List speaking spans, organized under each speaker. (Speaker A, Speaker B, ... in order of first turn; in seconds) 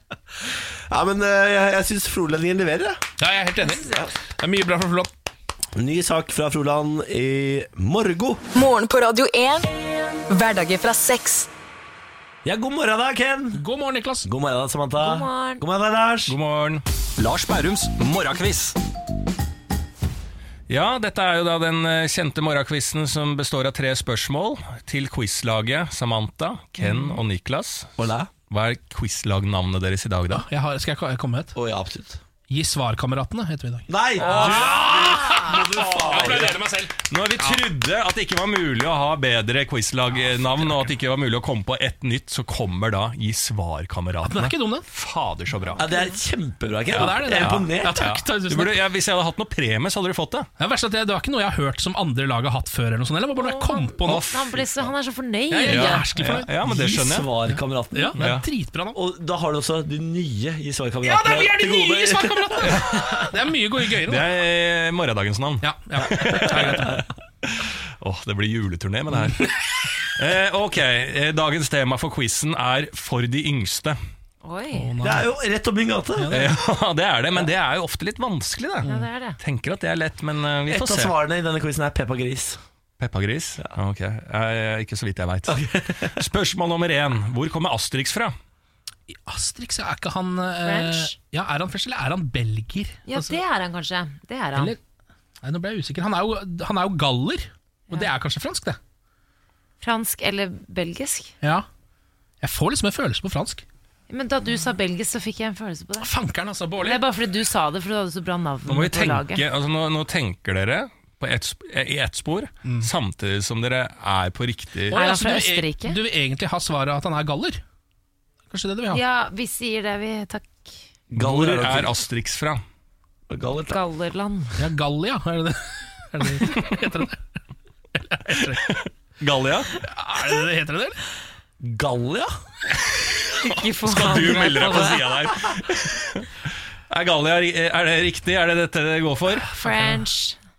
Speaker A: 0.9-3.0, 5.8-8.4, 12.4-13.6, 14.2-16.4, 28.0-28.3, 31.6-32.2, 33.9-36.6, 45.8-48.1, 56.6-58.2, 58.9-62.9, 75.0-76.3, 80.7-82.6, 85.5-86.1, 121.1-122.0, 123.3-123.8, 131.6-132.3
Speaker B: 3.2-5.1, 13.6-14.3, 30.3-31.6, 32.5-37.6, 40.5-40.8, 44.2-44.9, 46.9-48.8, 50.6-54.3, 55.5-57.0, 57.5-59.0, 61.0-64.3, 65.6-67.0, 74.7-75.3, 76.2-76.6, 89.3-93.4, 95.4-98.8, 102.4-103.7, 106.0-107.0, 112.6-112.9, 114.9-117.6, 118.5-119.0, 124.6-127.2, 128.0-128.8, 129.8-131.0, 139.6-140.0
Speaker C: 3.6-3.9, 15.0-15.6, 26.8-27.2, 45.9-46.1, 53.4-56.1, 74.4-74.9, 78.8-79.4, 90.6-91.1, 93.1-94.8, 99.8-101.3, 104.1-106.1, 106.8-109.5, 114.9-116.0, 118.9-120.7, 123.7-124.6, 133.4-135.0, 139.6-140.4
Speaker D: 8.5-9.7, 10.3-11.5
Speaker E: 16.3-18.8, 20.7-27.9, 28.5-30.4, 34.3-34.7, 36.0-36.6, 37.1-45.8, 46.9-50.5, 54.0-54.7, 55.7-57.3, 58.2-58.5, 62.7-63.3, 64.0-67.0, 68.0-69.5, 70.2-74.0, 76.3-81.1, 83.0-88.3, 108.7-115.0, 121.1-122.6, 128.5-129.7, 133.8-136.3, 136.9-139.5